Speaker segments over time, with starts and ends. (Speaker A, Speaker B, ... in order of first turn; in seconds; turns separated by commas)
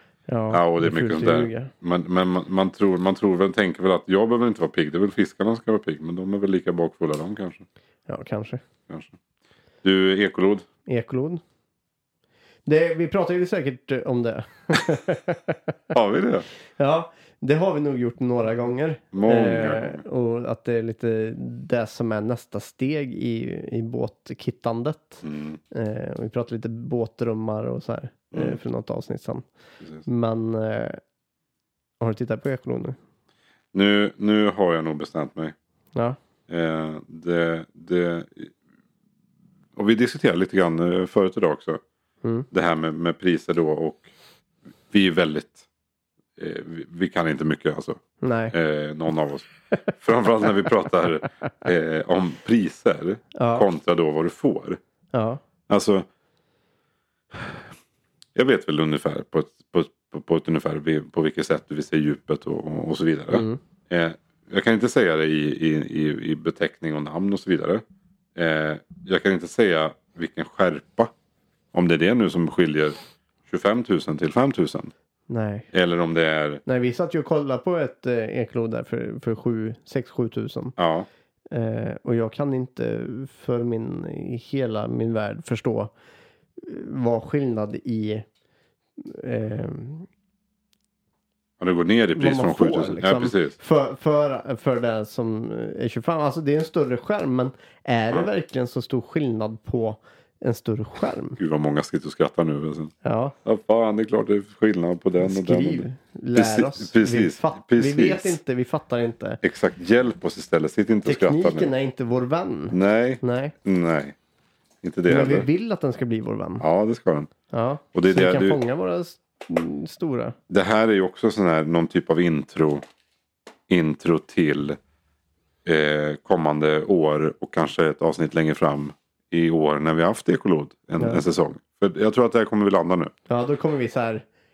Speaker A: 0.3-1.7, Speaker B: 0.5-7.7, Speaker A: 8.1-8.6, Speaker B: 8.9-9.2, Speaker B: 9.8-10.7, Speaker A: 10.8-11.4, Speaker A: 12.7-15.7, Speaker B: 15.9-16.4, Speaker A: 16.8-29.4, Speaker B: 19.1-20.0, Speaker B: 25.2-25.6, Speaker B: 28.3-28.6, Speaker A: 30.0-31.0, Speaker A: 32.0-33.0, Speaker B: 33.7-35.5, Speaker B: 36.5-38.5, Speaker B: 39.8-41.8, Speaker B: 42.5-44.1, Speaker B: 44.9-45.7, Speaker B: 46.4-48.0, Speaker A: 48.2-48.5, Speaker B: 48.5-54.8, Speaker A: 53.3-53.6, Speaker A: 55.1-55.4, Speaker B: 55.7-56.0, Speaker B: 58.3-67.8, Speaker A: 63.3-63.6, Speaker B: 68.3-71.1, Speaker B: 71.7-73.0, Speaker B: 73.5-74.9, Speaker A: 75.3-75.7, Speaker B: 75.7-76.6, Speaker A: 76.7-80.7, Speaker B: 80.8-81.1, Speaker A: 81.5-85.9, Speaker A: 86.6-88.2, Speaker A: 89.0-90.1, Speaker B: 91.6-93.5, Speaker A: 92.1-101.4, Speaker B: 101.4-102.9, Speaker A: 103.0-103.3, Speaker B: 103.4-108.4, Speaker A: 105.2-109.4, Speaker B: 109.4-111.7, Speaker A: 111.0-113.5, Speaker B: 112.7-114.2, Speaker B: 114.8-115.5, Speaker A: 115.1-116.6, Speaker B: 116.6-117.3, Speaker A: 117.5-120.3, Speaker B: 117.9-118.6, Speaker B: 120.5-122.8, Speaker B: 123.7-124.8, Speaker B: 125.6-133.1, Speaker A: 131.0-131.2, Speaker A: 133.3-134.2